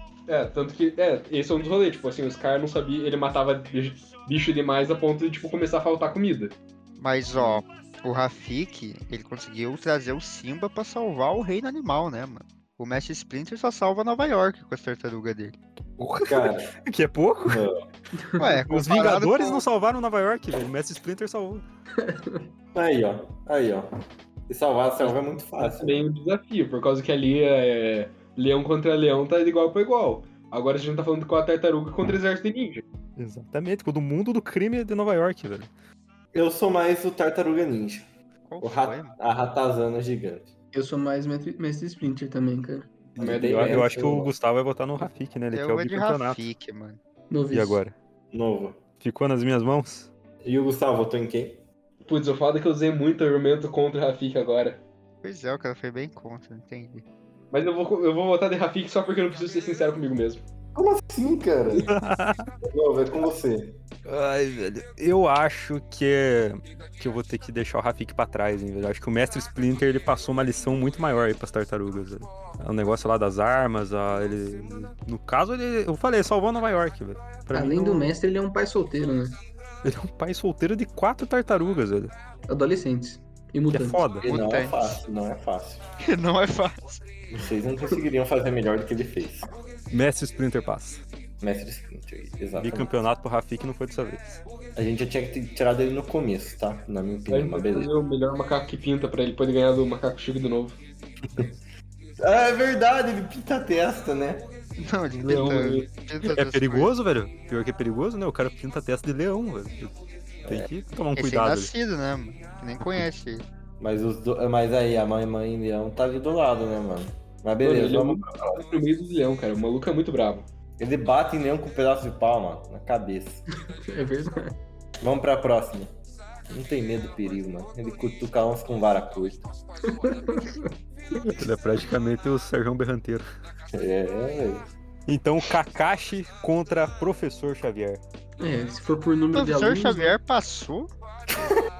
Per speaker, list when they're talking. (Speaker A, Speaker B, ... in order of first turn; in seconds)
Speaker A: 0.3-6.5, 25.0-32.8, 43.1-44.1, 52.0-54.8, 57.5-60.4, 97.3-100.8, 105.1-105.9, 117.6-120.5
Speaker B: 7.0-15.6, 18.4-19.6, 38.5-39.1, 45.5-47.0, 55.2-57.0, 84.2-85.0, 86.0-87.0, 104.8-106.9, 111.1-113.5, 139.3-140.9
Speaker C: 16.0-17.6, 18.5-21.6, 33.2-35.7, 43.1-46.4, 47.5-47.9, 49.0-50.1, 61.8-62.5, 64.0-78.1, 79.8-82.1, 83.7-84.3, 89.9-91.0, 92.6-94.4, 106.3-110.0, 110.5-111.7, 131.2-133.2, 135.1-138.0
Speaker D: 16.2-16.7, 17.4-17.8, 22.7-23.9, 24.5-26.0, 36.3-38.1, 38.6-40.5, 43.2-44.3, 48.3-48.8, 50.4-51.6, 60.7-61.9, 62.6-63.8, 84.2-85.8, 87.3-89.5, 91.4-92.9, 94.7-97.9, 101.2-101.6, 102.2-104.5, 110.4-110.7, 113.8-118.6, 120.8-123.4, 125.0-125.9, 126.5-129.5, 133.7-134.7
Speaker E: 22.0-22.4, 40.7-42.9, 47.3-47.8, 77.5-79.4, 82.5-84.0, 123.9-124.6, 129.9-130.7, 138.4-140.2